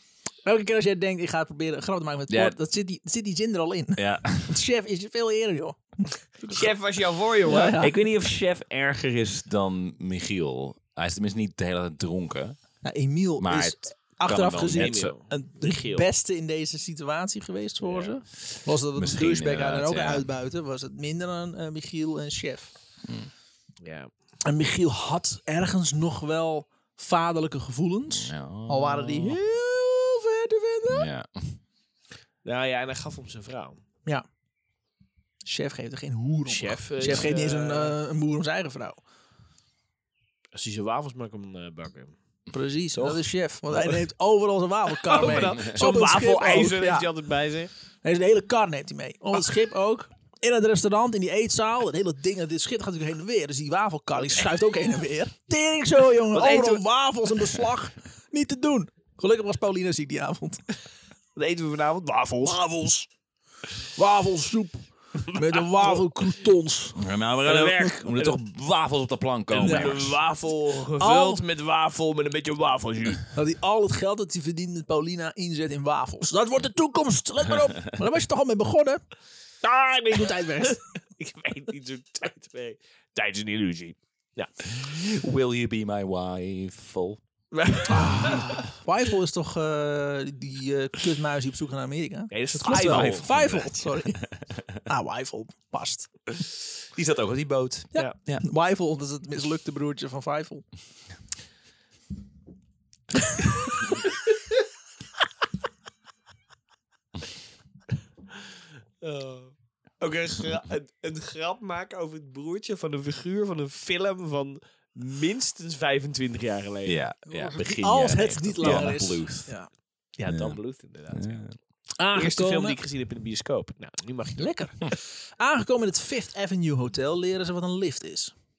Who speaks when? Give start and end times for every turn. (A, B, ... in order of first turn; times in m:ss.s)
0:00.5-0:06.7 A
0:02.3-0:02.6 B
0:04.0-0:04.6 B
0:06.5-0:07.8 C
0:07.4-0:08.0 A
0:07.8-0:12.6 B
0:12.8-0:22.7 A
0:13.4-0:15.1 B
0:14.7-0:16.0 C
0:17.8-0:18.2 C
0:19.0-0:20.3 B
0:23.0-0:23.3 B
0:23.8-0:24.1 C
0:24.5-0:31.1 A
0:28.1-0:29.4 B
0:30.9-0:31.6 B
0:32.4-0:33.8 C
0:35.4-0:39.0 A
0:36.5-0:38.0 C
0:37.0-0:37.3 B
0:40.5-0:42.2 C
0:42.5-0:47.1 A
0:42.9-0:44.1 C
0:45.0-0:47.7 C
0:45.2-0:45.7 B
0:48.0-1:00.7 A
0:56.3-0:56.8 C
1:01.4-1:02.6 C
1:02.5-1:03.1 A
1:04.0-1:07.0 A
1:05.5-1:06.0 C
1:07.0-1:10.2 B
1:07.5-1:08.4 C
1:09.5-1:13.3 C
1:09.6-1:10.0 A
1:11.0-1:11.4 A
1:13.3-1:19.0 A
1:19.6-1:24.5 C
1:20.0-1:20.8 A
1:24.7-1:27.2 B
1:27.5-1:28.7 C
1:27.9-1:36.1 A
1:32.3-1:33.6 C
1:32.7-1:33.8 B
1:36.9-1:38.4 B
1:37.9-1:40.7 A
1:49.0-1:57.0 C
1:56.8-1:59.5 B
1:57.3-1:59.7 A
1:58.6-1:59.2 C
2:00.2-2:01.6 C
2:00.3-2:00.6 B
2:01.1-2:01.6 B
2:02.0-2:02.8 A
2:02.1-2:04.7 C
2:04.4-2:08.4 A